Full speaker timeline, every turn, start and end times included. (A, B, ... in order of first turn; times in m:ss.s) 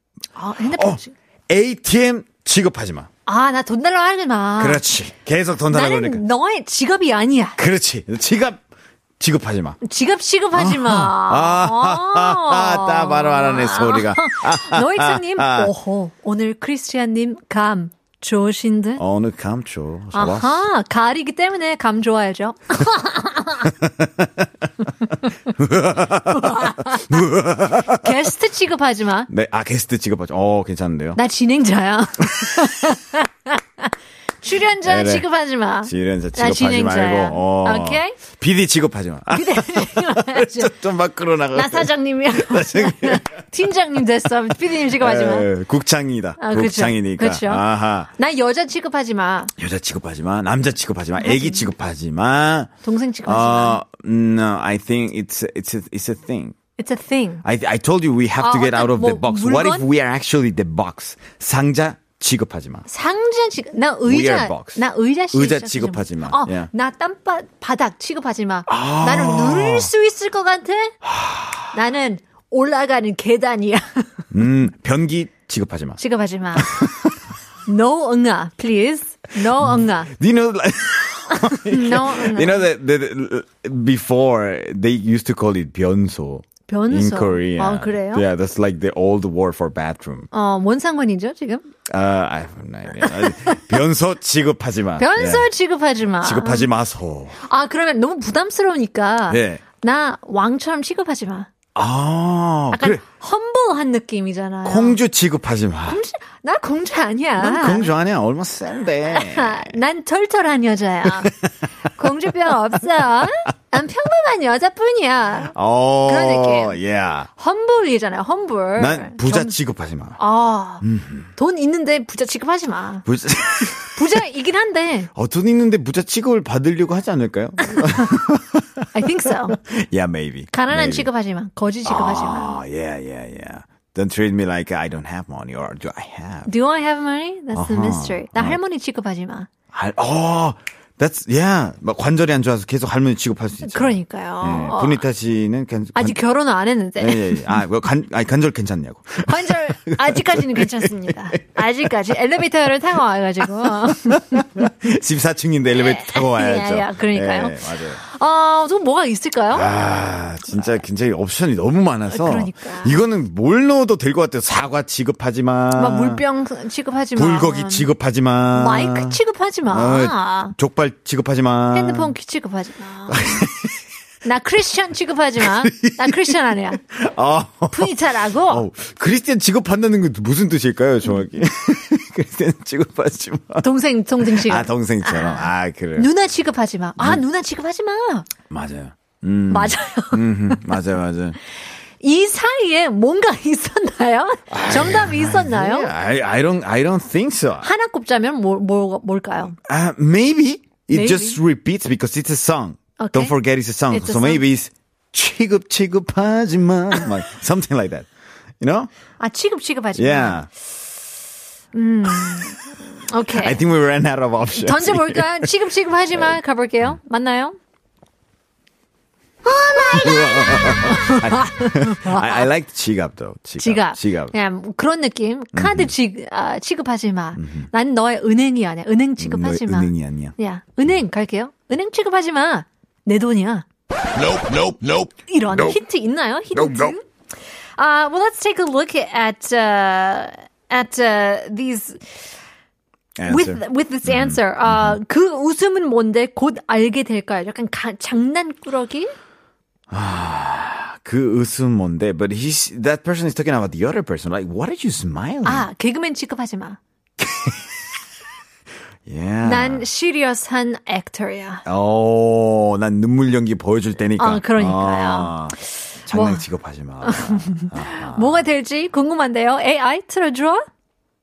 0:00.4-0:01.1 A
0:00.6-0:03.1 B
0:03.2-0:04.8 A
0:04.6-0:06.2 B
0:05.7-0:07.6 A
0:07.6-0:08.6 B
0:09.2-0:09.8 B
0:09.8-0:19.0 A
0:10.5-0:15.7 B
0:19.0-0:20.6 B
0:20.1-0:23.7 A
0:23.6-0:24.4 B
0:25.4-0:28.3 B
0:26.4-0:27.2 A
0:27.8-0:29.3 A
0:29.3-0:31.2 B
0:31.2-0:33.8 A
0:32.3-0:32.7 B
0:34.4-0:38.2 A
0:34.8-0:35.3 B
0:35.8-0:43.3 B
0:39.3-0:40.7 A
0:41.5-0:45.5 A
0:44.8-0:48.1 B
0:46.4-0:49.5 A
0:49.6-0:52.7 B
0:51.2-0:51.7 A
0:52.8-0:53.8 A
0:53.2-0:56.6 B
0:56.8-0:57.4 A
0:57.4-1:02.9 B
0:58.4-0:59.9 A
1:02.9-1:10.9 A
1:04.0-1:06.7 B
1:08.7-1:09.9 B
1:11.0-1:11.7 B
1:11.7-1:14.1 A
1:14.3-1:16.0 B
1:16.0-1:16.8 A
1:16.5-1:17.1 B
1:17.6-1:20.1 A
1:19.6-1:30.3 B
1:21.4-1:22.7 A
1:26.7-1:28.3 A
1:30.3-1:31.6 A
1:31.9-1:35.5 B
1:33.0-1:33.8 A
1:35.0-1:36.7 A
1:36.2-1:37.4 B
1:37.4-1:41.5 A
1:39.3-1:39.6 B
1:41.7-1:43.0 B
1:42.7-1:45.0 A
1:44.6-1:46.0 B
1:45.9-1:47.9 A
1:47.4-1:49.8 B
1:49.1-1:51.4 A
1:51.0-1:51.3 B
1:51.9-1:55.5 A
1:55.5-1:57.3 B
1:56.0-1:56.8 A
1:57.4-1:59.6 A
1:58.8-2:00.2 B
2:00.2-2:03.0 A
2:00.8-2:01.3 B
2:03.0-2:04.2 B
2:03.7-2:05.1 A
2:05.1-2:11.1 B
2:08.9-2:09.6 A
2:10.5-2:12.6 A
2:11.8-2:16.5 B
2:16.4-2:19.5 A
2:17.5-2:18.6 B
2:19.7-2:26.2 B
2:23.6-2:25.0 A
2:25.9-2:27.6 A
2:27.0-2:31.9 B
2:29.2-2:34.7 A
2:33.7-2:38.0 B
2:35.7-2:39.7 A
2:39.5-2:46.2 B
2:42.1-2:43.0 A
2:45.7-2:47.9 A
2:47.1-2:52.1 B
2:48.5-2:50.5 A
2:51.7-2:53.3 A
2:53.1-2:53.7 B
2:54.2-2:56.8 A
2:55.4-3:03.7 B
2:57.7-2:58.6 A
3:03.6-3:08.3 A
3:04.2-3:06.1 B
3:07.0-3:07.2 B
3:08.5-3:11.4 B
3:09.5-3:10.6 A
3:12.0-3:15.9 A
3:14.5-3:17.7 B
3:17.6-3:19.6 A
3:19.6-3:28.1 B
3:20.9-3:21.4 A
3:23.0-3:23.3 A
3:23.9-3:24.4 A
3:28.6-3:28.9 B
3:29.2-3:30.4 A
3:29.9-3:30.5 B
3:31.7-3:33.6 A
3:32.0-3:32.4 B
3:33.3-3:35.5 B
3:34.5-3:37.6 A
3:36.1-3:36.4 B
3:39.4-3:42.5 A
3:39.9-3:44.4 B
3:43.6-3:53.6 A
3:45.5-3:45.9 B
3:47.4-3:47.7 B
3:49.2-3:50.3 B
3:54.2-3:55.8 B
3:55.0-3:57.0 A
3:56.5-3:56.9 B
3:57.8-4:02.2 A
4:03.2-4:05.0 B
4:03.3-4:09.1 A
4:09.9-4:15.7 B
4:15.4-4:16.8 A
4:17.2-4:17.7 B
4:19.0-4:19.9 B
4:19.4-4:21.6 A
4:21.6-4:28.4 B
4:24.2-4:25.4 A
4:26.1-4:26.4 A
4:27.0-4:30.6 A